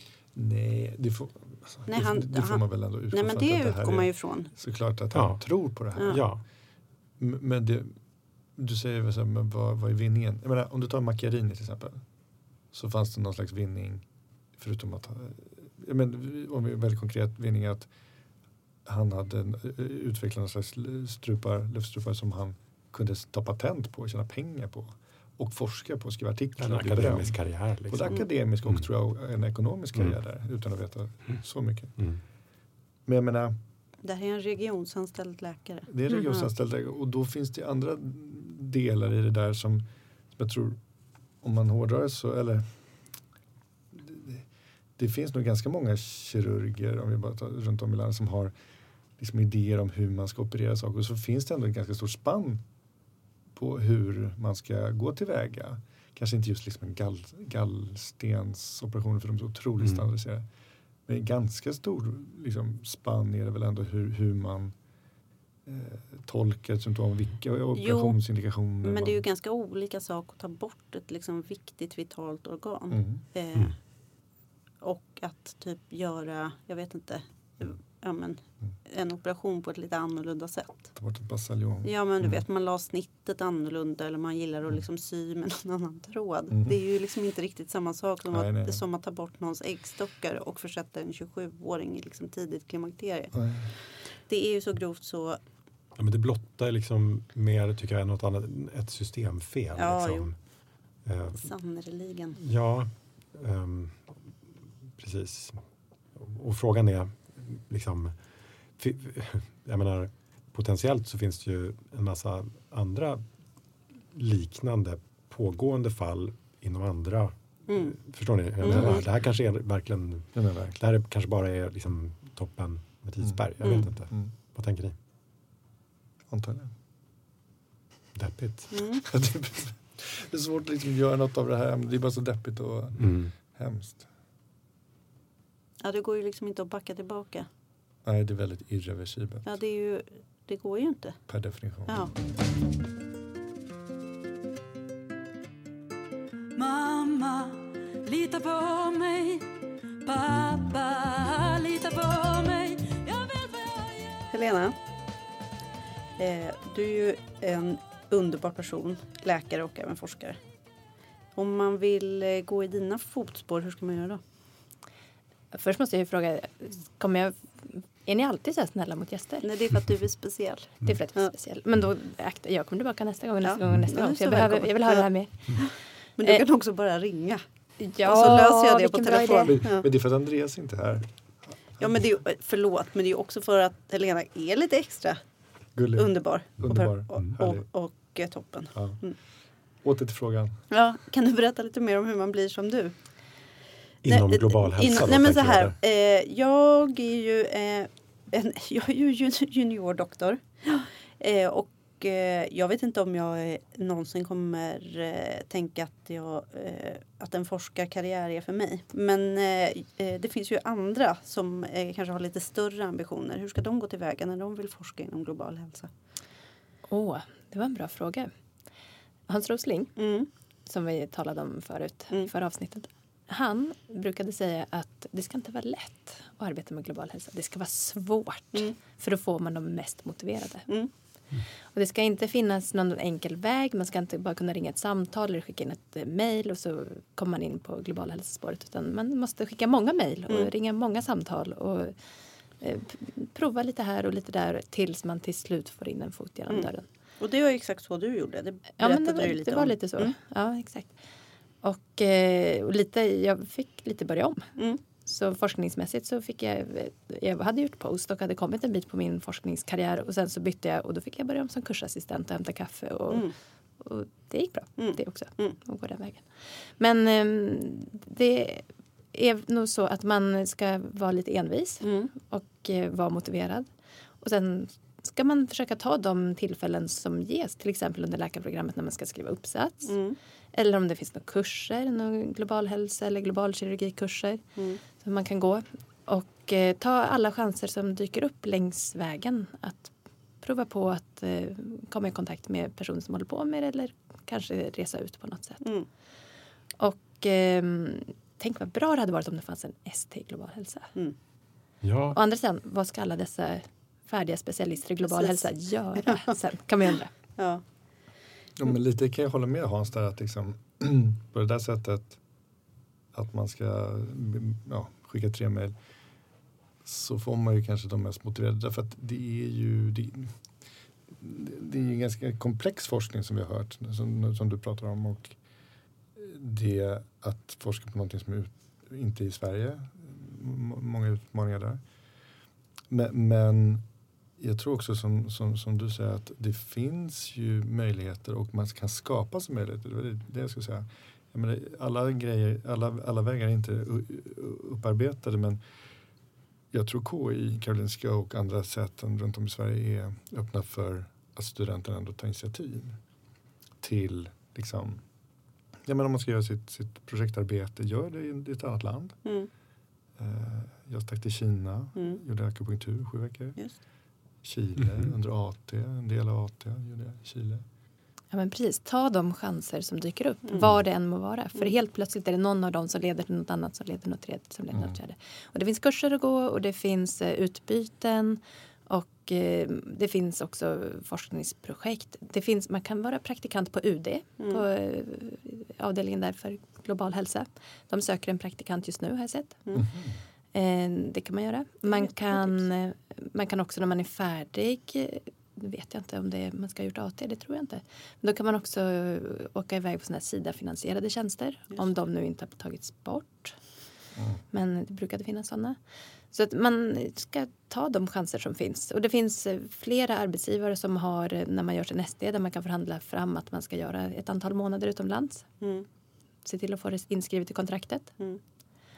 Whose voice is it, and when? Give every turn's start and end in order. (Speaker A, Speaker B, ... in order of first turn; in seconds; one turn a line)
Speaker A: 0.3-6.2
Speaker B: 1.9-4.5
Speaker C: 5.1-5.4
Speaker B: 6.0-6.2
Speaker C: 6.0-6.4
Speaker A: 7.2-8.0
Speaker A: 8.6-12.0
Speaker A: 12.7-14.0
Speaker A: 14.6-17.9
Speaker A: 18.8-27.4
Speaker C: 26.6-28.8
Speaker A: 27.9-32.0
Speaker A: 33.0-33.6
Speaker B: 34.0-36.5
Speaker A: 35.9-39.8
Speaker A: 40.4-40.8
Speaker A: 41.4-42.6
Speaker A: 43.9-44.4
Speaker A: 45.0-48.5
Speaker A: 49.2-52.6
Speaker A: 53.5-60.4
Speaker A: 61.1-64.7
Speaker A: 65.7-69.2
Speaker B: 67.8-68.2
Speaker B: 68.8-73.7
Speaker A: 72.9-73.2
Speaker B: 74.8-80.9
Speaker A: 80.9-82.4
Speaker B: 81.8-93.3
Speaker A: 86.5-86.8
Speaker A: 88.3-88.8
Speaker A: 93.3-93.7
Speaker B: 94.3-95.4
Speaker C: 96.0-100.3
Speaker B: 99.8-100.3
Speaker C: 101.0-101.4
Speaker B: 101.3-102.4
Speaker C: 102.4-104.1
Speaker C: 105.0-105.6
Speaker C: 106.2-108.1
Speaker C: 108.8-113.2
Speaker C: 114.1-124.9
Speaker B: 117.7-118.0
Speaker B: 118.6-119.0
Speaker A: 118.7-119.0
Speaker A: 120.3-120.8
Speaker A: 123.2-124.3
Speaker B: 123.6-123.9
Speaker A: 126.3-126.7
Speaker C: 128.1-128.8
Speaker B: 128.7-129.0
Speaker A: 129.0-134.1
Speaker C: 133.0-133.3
Speaker B: 135.8-137.5
Speaker A: 138.0-139.5
Speaker B: 139.4-141.2
Speaker A: 141.3-142.1
Speaker B: 141.9-142.1
Speaker D: 146.5-154.2
Speaker B: 154.3-154.7
Speaker B: 156.2-160.4
Speaker B: 161.3-164.2
Speaker E: 165.5-169.5
Speaker B: 169.4-171.3
Speaker E: 170.8-175.6
Speaker B: 173.4-177.4
Speaker E: 177.8-179.6
Speaker B: 178.0-179.9
Speaker A: 179.5-181.0
Speaker B: 181.8-185.2
Speaker A: 185.8-187.6
Speaker B: 185.9-189.2
Speaker A: 188.7-189.0
Speaker A: 189.8-190.6
Speaker B: 190.7-192.9
Speaker C: 194.0-195.8
Speaker B: 194.0-215.9
Speaker E: 216.9-218.3
Speaker E: 219.3-219.9
Speaker B: 219.9-220.3
Speaker E: 220.7-230.7
Speaker E: 231.7-241.9
Speaker E: 242.6-246.8
Speaker B: 246.5-250.1
Speaker E: 248.8-250.9
Speaker E: 251.6-254.5
Speaker E: 255.0-263.3
Speaker E: 263.8-266.2
Speaker B: 264.8-265.6
Speaker E: 266.8-273.7
Speaker B: 271.8-272.1
Speaker E: 274.2-279.9
Speaker B: 279.9-280.2
Speaker E: 280.5-284.4
Speaker B: 284.6-284.8
Speaker E: 285.0-295.6
Speaker B: 295.6-295.9
Speaker E: 296.8-300.9
Speaker C: 301.8-302.2
Speaker E: 302.1-307.1
Speaker B: 305.1-305.4
Speaker B: 307.4-307.6
Speaker A: 308.6-312.2
Speaker A: 313.1-315.7
Speaker A: 316.8-320.3
Speaker A: 321.1-325.4
Speaker A: 326.1-331.8
Speaker A: 332.9-333.8
Speaker A: 334.4-345.6
Speaker A: 346.7-353.0
Speaker A: 353.8-355.0
Speaker A: 355.8-359.2
Speaker A: 360.2-363.6
Speaker B: 361.9-362.2
Speaker A: 364.4-367.6
Speaker E: 368.3-389.6
Speaker A: 389.7-390.1
Speaker E: 390.5-403.6
Speaker B: 391.9-392.6
Speaker E: 404.5-405.8
Speaker E: 406.3-415.5
Speaker B: 415.6-415.9
Speaker E: 416.4-418.1